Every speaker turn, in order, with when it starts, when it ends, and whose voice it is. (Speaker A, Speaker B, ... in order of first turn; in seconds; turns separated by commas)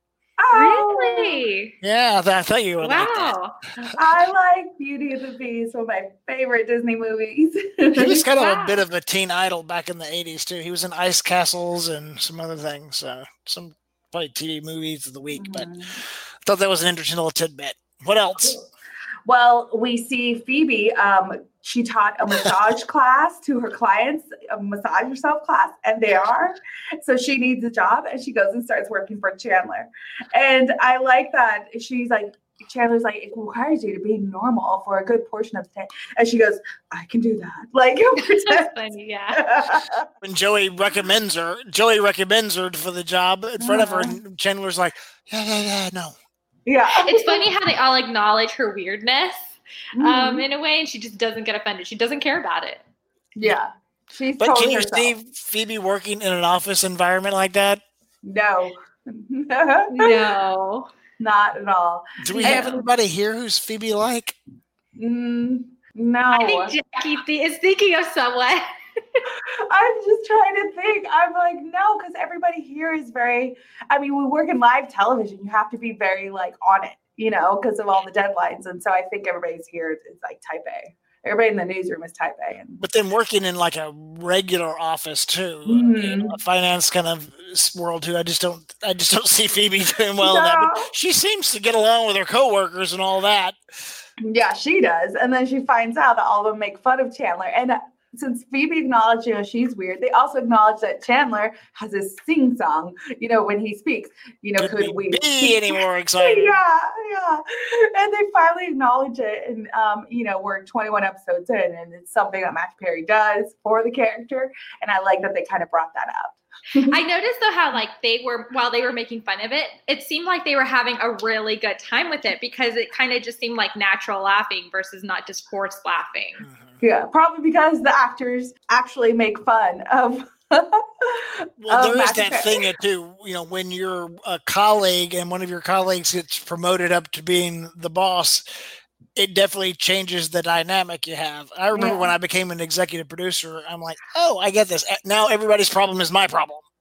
Speaker A: 0.4-1.4, Speaker B: 0.5-1.7, Speaker C: 1.8-3.3, Speaker B: 2.8-3.9, Speaker A: 3.9-8.3, Speaker C: 8.0-15.7, Speaker B: 8.4-8.8, Speaker A: 15.3-16.0, Speaker C: 16.4-18.6, Speaker A: 19.2-38.8, Speaker B: 38.3-39.4, Speaker A: 39.3-40.1, Speaker C: 40.2-46.1, Speaker A: 43.6-44.2, Speaker A: 46.6-47.5, Speaker B: 47.0-49.3, Speaker A: 50.0-50.4, Speaker B: 50.0-52.8, Speaker A: 53.4-55.1, Speaker C: 54.4-57.8, Speaker A: 58.2-60.2, Speaker B: 59.9-60.9, Speaker A: 61.2-62.8, Speaker C: 62.2-64.4, Speaker B: 62.4-62.8, Speaker A: 65.0-66.8, Speaker B: 66.3-68.6, Speaker A: 69.7-82.8, Speaker C: 82.8-93.6, Speaker A: 85.7-86.4, Speaker A: 90.2-90.9, Speaker A: 94.2-117.0, Speaker C: 104.6-106.6, Speaker B: 116.9-126.4, Speaker C: 126.4-126.8, Speaker A: 126.8-132.7, Speaker C: 131.6-138.4, Speaker C: 139.2-146.6, Speaker A: 141.7-142.1